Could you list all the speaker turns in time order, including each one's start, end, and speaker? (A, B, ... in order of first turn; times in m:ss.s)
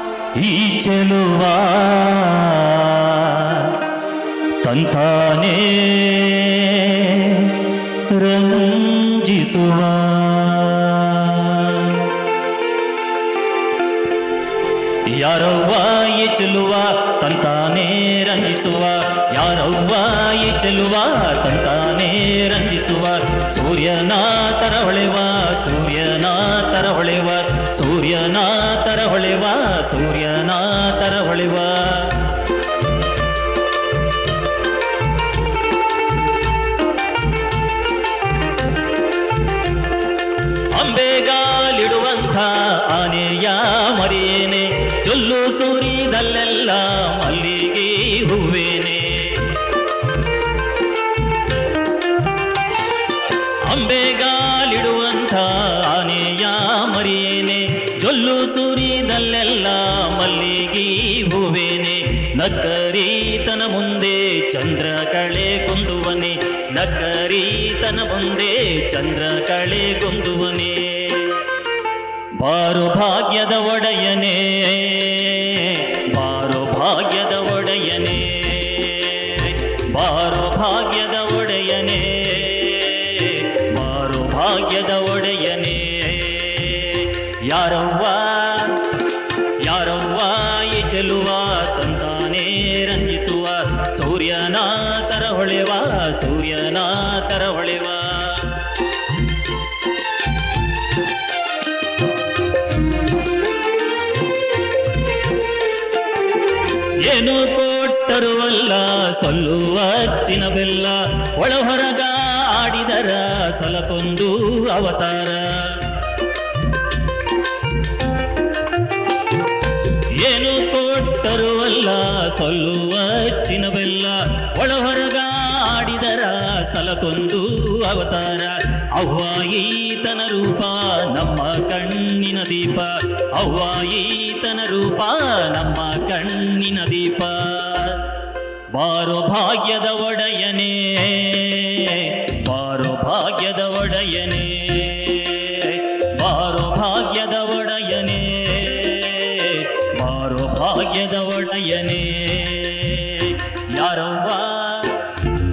0:00.3-0:03.8 A
0:04.6-0:12.1 A
0:15.1-0:32.3 A
0:40.7-0:49.6 A
0:53.6-1:11.5 A
1:12.4-1:29.0 A
1:29.6-1:38.7 A
1:47.0-1:56.0 A
2:00.1-2:18.1 A
2:18.7-2:35.3 A